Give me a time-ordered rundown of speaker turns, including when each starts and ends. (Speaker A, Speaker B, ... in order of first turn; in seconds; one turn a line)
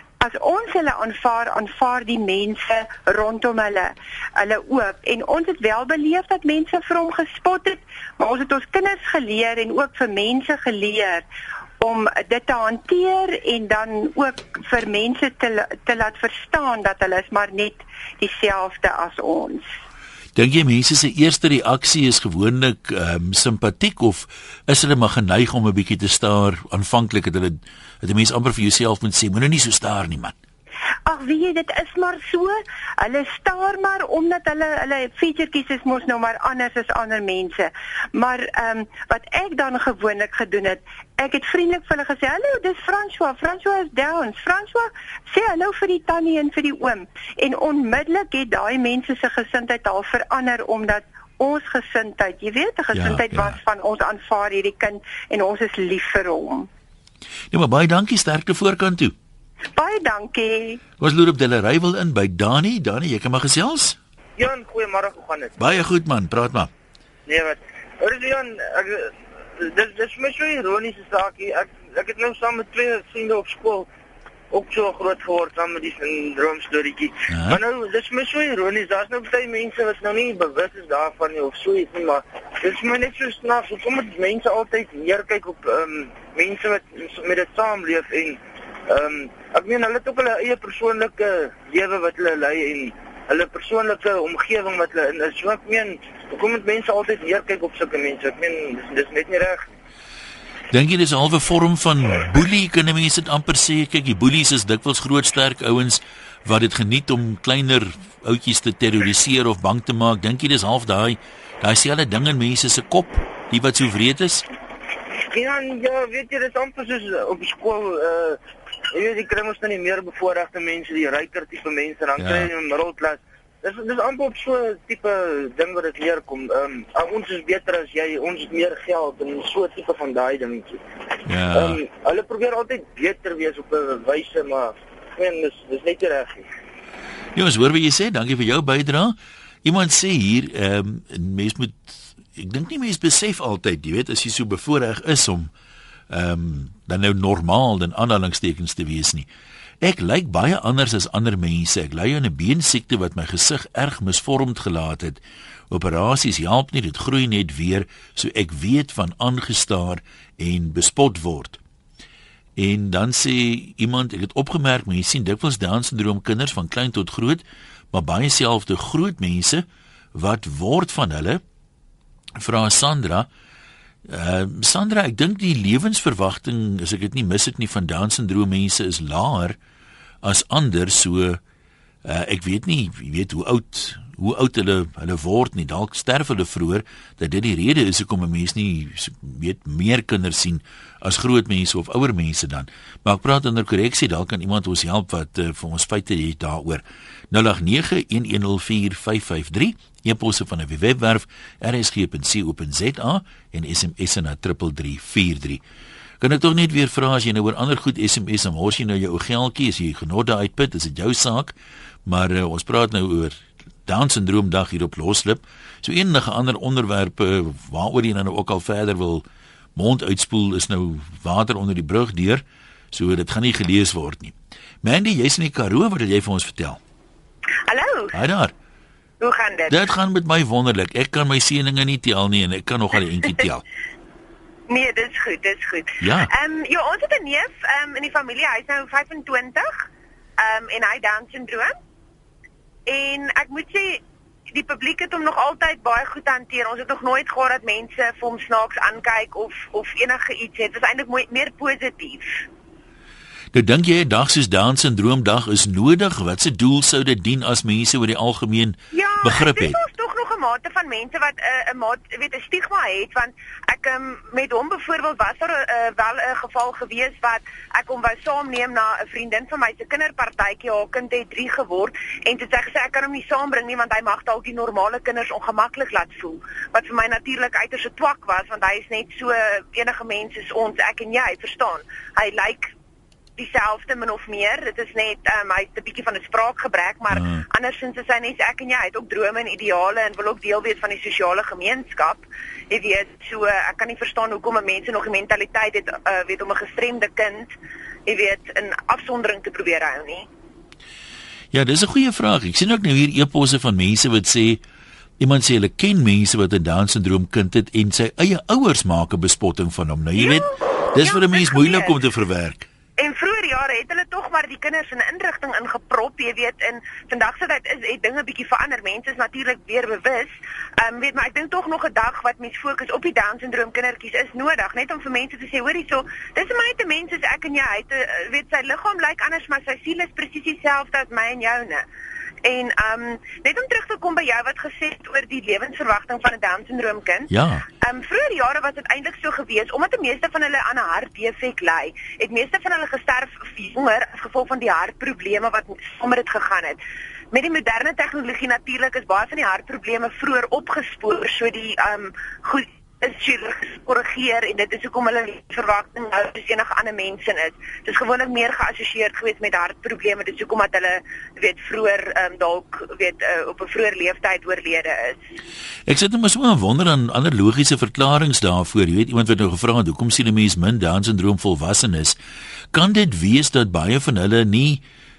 Speaker A: 0.2-11.3
Speaker A: 11.8-19.7
Speaker B: 20.4-30.3
Speaker A: 31.1-56.7
Speaker B: 52.9-53.6
Speaker B: 57.5-59.1
Speaker A: 59.7-60.8
Speaker B: 61.0-64.0
Speaker C: 64.4-65.6
Speaker B: 65.6-66.7
Speaker C: 67.3-73.9
Speaker C: 74.5-99.7
Speaker B: 77.3-77.6
Speaker B: 100.7-114.5
Speaker C: 115.3-118.4
Speaker C: 118.9-130.8
Speaker B: 122.2-122.5
Speaker B: 131.3-131.8
Speaker C: 131.5-136.5
Speaker B: 137.3-145.5
Speaker B: 146.1-149.3
Speaker B: 149.8-161.6
Speaker B: 162.6-171.4
Speaker B: 172.4-173.3
Speaker B: 174.1-179.6
Speaker B: 180.2-181.4
Speaker B: 182.1-205.6
Speaker B: 206.2-211.6
Speaker B: 212.1-219.2
Speaker B: 219.8-226.8
Speaker D: 227.7-228.1
Speaker B: 228.1-228.5
Speaker D: 229.2-229.7
Speaker B: 229.7-233.6
Speaker D: 234.7-239.9
Speaker B: 236.0-236.3
Speaker D: 240.4-241.8
Speaker D: 242.9-252.4
Speaker B: 253.5-259.8
Speaker D: 258.9-282.7
Speaker D: 283.4-297.6
Speaker B: 287.1-287.4
Speaker D: 298.1-300.3
Speaker B: 301.5-304.6
Speaker B: 305.2-312.7
Speaker D: 310.2-311.9
Speaker D: 313.0-331.9
Speaker D: 332.4-337.3
Speaker B: 337.3-337.6
Speaker D: 337.8-346.8
Speaker D: 347.3-365.2
Speaker B: 365.9-372.2
Speaker B: 372.7-374.8